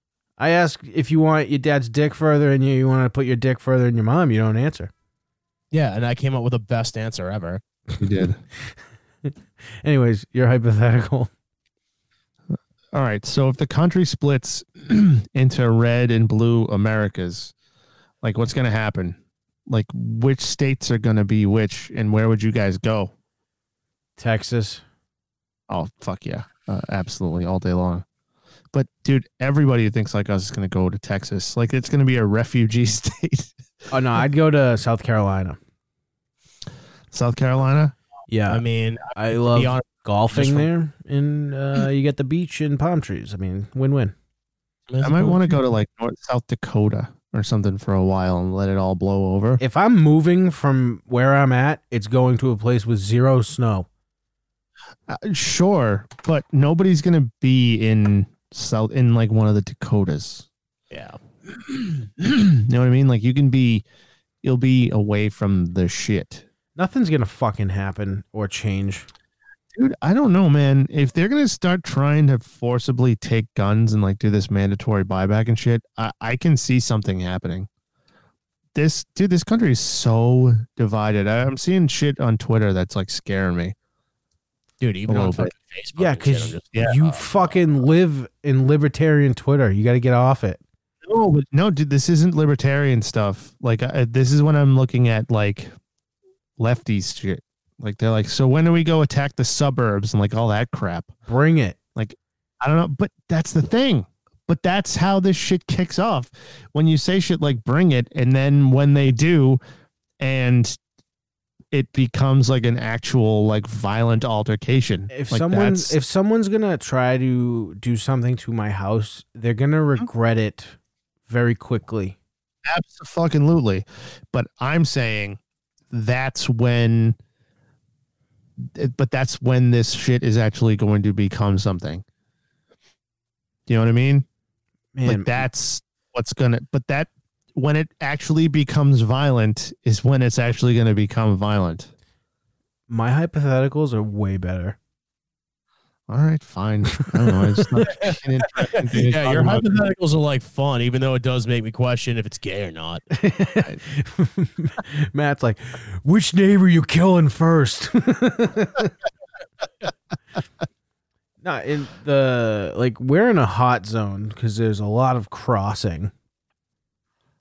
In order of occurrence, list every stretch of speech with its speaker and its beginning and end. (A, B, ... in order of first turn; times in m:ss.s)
0:00.4-0:04.9 A
0:05.7-0:07.6 B
0:08.0-0:08.4 C
0:09.8-0:11.3 A
0:12.9-0:17.5 C
0:18.2-0:23.1 C
0:24.2-0:24.8 A
0:25.7-0:28.0 C
0:28.7-0:33.5 C
0:33.9-0:35.6 A
0:37.1-0:37.9 C
0:38.3-0:38.6 A
0:38.5-0:39.8 B
0:39.1-0:44.1 A
0:40.4-0:40.6 C
0:44.9-0:45.5 B
0:45.0-0:49.6 C
0:49.6-0:53.9 A
0:55.1-1:00.4 C
1:00.9-1:01.2 B
1:01.5-1:03.8 C
1:04.4-1:06.4 C
1:06.8-1:09.1 A
1:09.7-1:17.7 C
1:18.7-1:23.7 C
1:24.8-1:27.3 B
1:25.1-1:25.5 C
1:26.0-1:30.6 A
1:31.0-1:35.7 C
1:36.6-1:41.1 C
1:41.3-1:41.8 A
1:42.0-1:49.6 C
1:50.2-1:50.8 C
1:51.7-1:56.0 C
1:55.1-2:00.8 A
2:01.3-2:02.2 A
2:02.6-2:05.4 C
2:05.9-2:07.2 C
2:08.6-2:12.0 C
2:13.7-2:14.2 C
2:14.9-2:15.4 A
2:15.0-2:21.9 C
2:22.9-2:24.8 A
2:26.1-2:29.7 C
2:27.0-2:27.6 A
2:28.7-2:33.0 B
2:33.1-2:38.9 A
2:41.4-2:46.1 A